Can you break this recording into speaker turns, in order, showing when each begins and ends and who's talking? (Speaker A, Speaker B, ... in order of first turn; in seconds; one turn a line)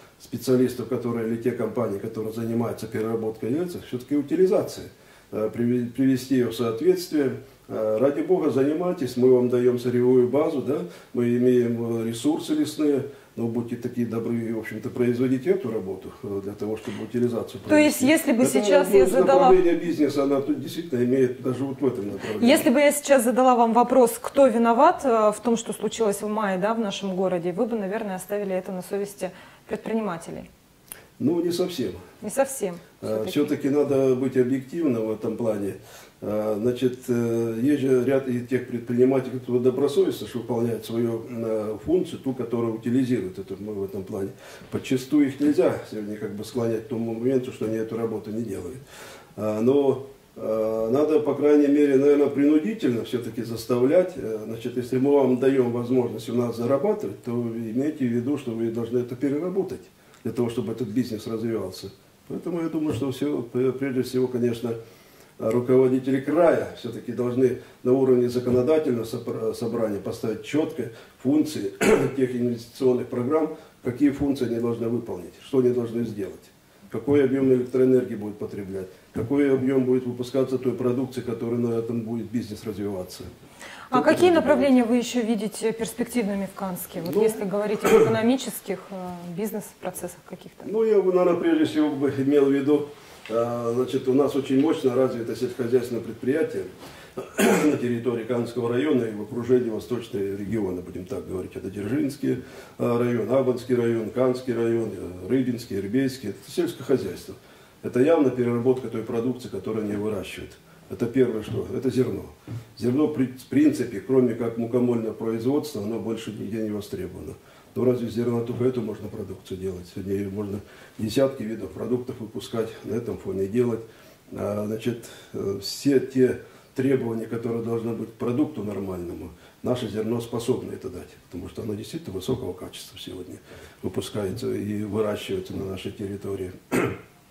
Speaker A: 0.2-22.7
Speaker B: 17.7-19.6
Speaker B: 22.4-30.5
Speaker A: 31.2-32.0
Speaker B: 32.2-33.5
Speaker A: 33.0-48.8
Speaker A: 49.4-64.8
Speaker A: 65.4-83.3
Speaker A: 83.9-84.7
Speaker B: 83.9-90.7
Speaker A: 87.0-87.9
Speaker A: 90.6-137.0